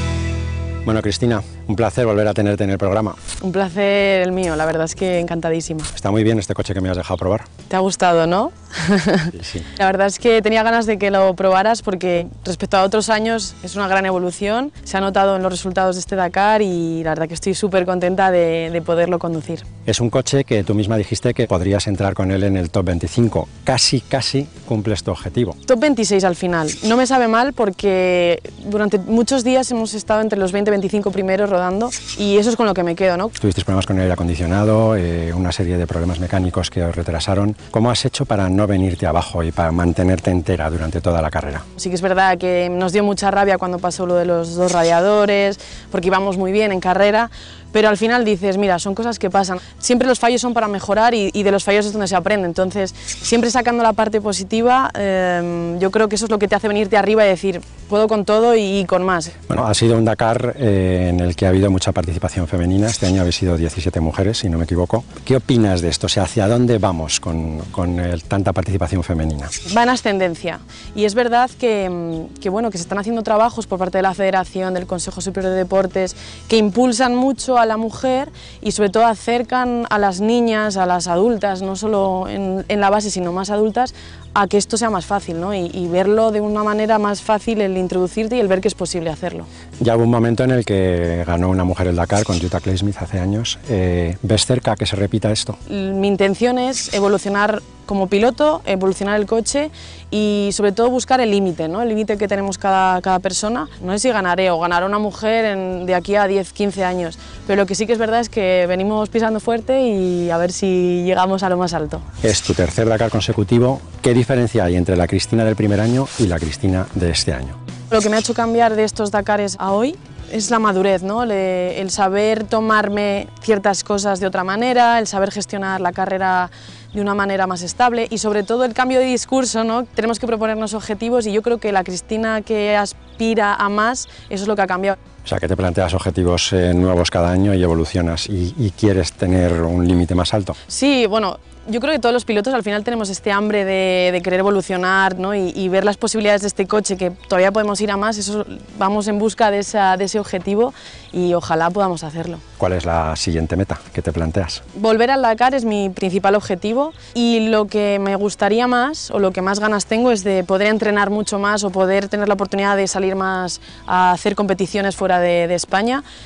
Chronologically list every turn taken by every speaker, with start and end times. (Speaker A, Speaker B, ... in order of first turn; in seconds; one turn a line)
Speaker A: 0.8-3.2
Speaker B: 3.4-5.9
Speaker A: 6.0-7.5
Speaker B: 7.7-19.7
Speaker A: 19.9-25.6
Speaker B: 25.7-33.4
Speaker A: 33.4-41.6
Speaker B: 41.8-59.4
Speaker A: 59.5-69.5
Speaker B: 69.7-89.5
Speaker A: 89.8-95.6
Speaker B: 95.7-112.0
Speaker A: 112.2-117.6
Speaker B: 117.9-135.0
Speaker A: 135.3-140.6
Speaker B: 140.7-152.4
Speaker A: 152.6-154.6
Speaker B: 154.8-166.0